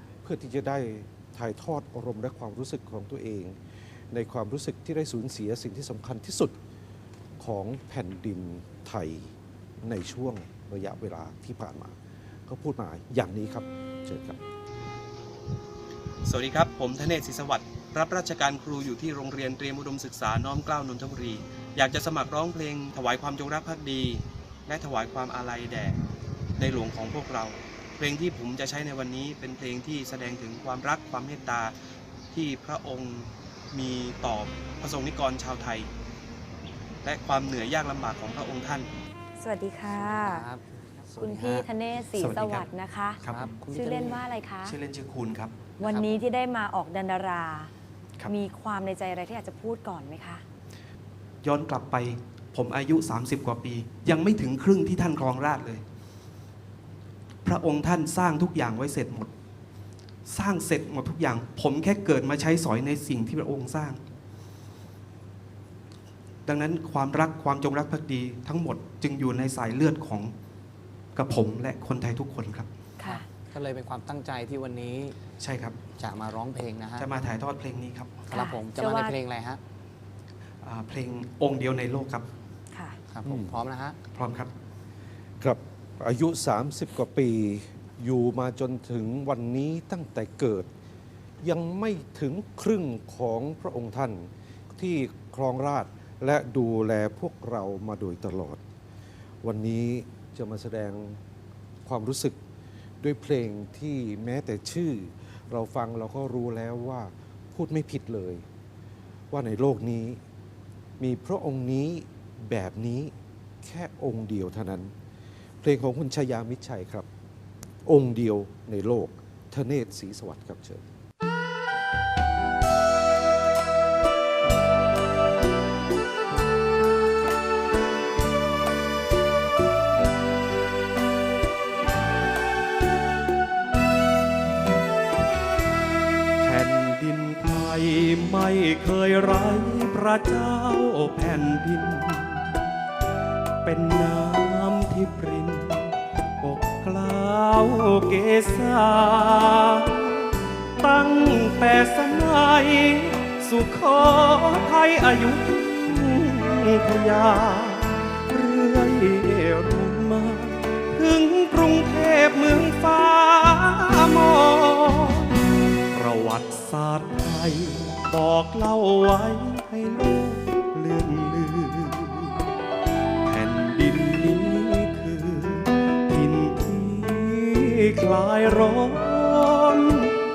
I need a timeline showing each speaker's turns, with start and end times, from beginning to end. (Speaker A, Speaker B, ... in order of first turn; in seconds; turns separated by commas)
Speaker A: 0.2-3.6, Speaker A: 4.1-6.5, Speaker A: 7.4-11.9, Speaker A: 12.5-14.4, Speaker B: 16.3-26.0, Speaker B: 26.6-31.8, Speaker B: 32.3-35.9, Speaker B: 37.0-38.9, Speaker C: 39.4-40.4, Speaker D: 39.9-41.6, Speaker C: 41.2-43.1, Speaker B: 42.1-42.7, Speaker B: 43.2-43.6, Speaker D: 43.3-44.3, Speaker C: 43.7-44.7, Speaker B: 44.6-45.7, Speaker D: 45.8-46.2, Speaker C: 45.8-47.7, Speaker C: 48.3-50.4, Speaker B: 51.4-55.8, Speaker B: 57.4-59.3, Speaker B: 60.3-64.0, Speaker B: 66.5-70.3, Speaker B: 71.2-72.7, Speaker D: 73.0-75.2, Speaker B: 75.4-75.9, Speaker D: 76.0-77.1, Speaker B: 77.0-78.3, Speaker D: 78.3-79.6, Speaker C: 78.3-79.1, Speaker B: 80.6-82.3, Speaker D: 83.1-84.0, Speaker A: 83.2-83.5, Speaker B: 84.1-84.5, Speaker A: 85.4-90.7, Speaker A: 91.4-98.6, Speaker A: 99.4-101.2, Speaker A: 101.9-102.4, Speaker A: 103.0-108.5, Speaker A: 109.3-110.2, Speaker A: 111.0-114.9, Speaker A: 115.6-117.1, Speaker A: 117.9-120.8, Speaker B: 136.4-142.5, Speaker B: 143.6-165.3, Speaker B: 165.9-172.4, Speaker B: 173.2-180.2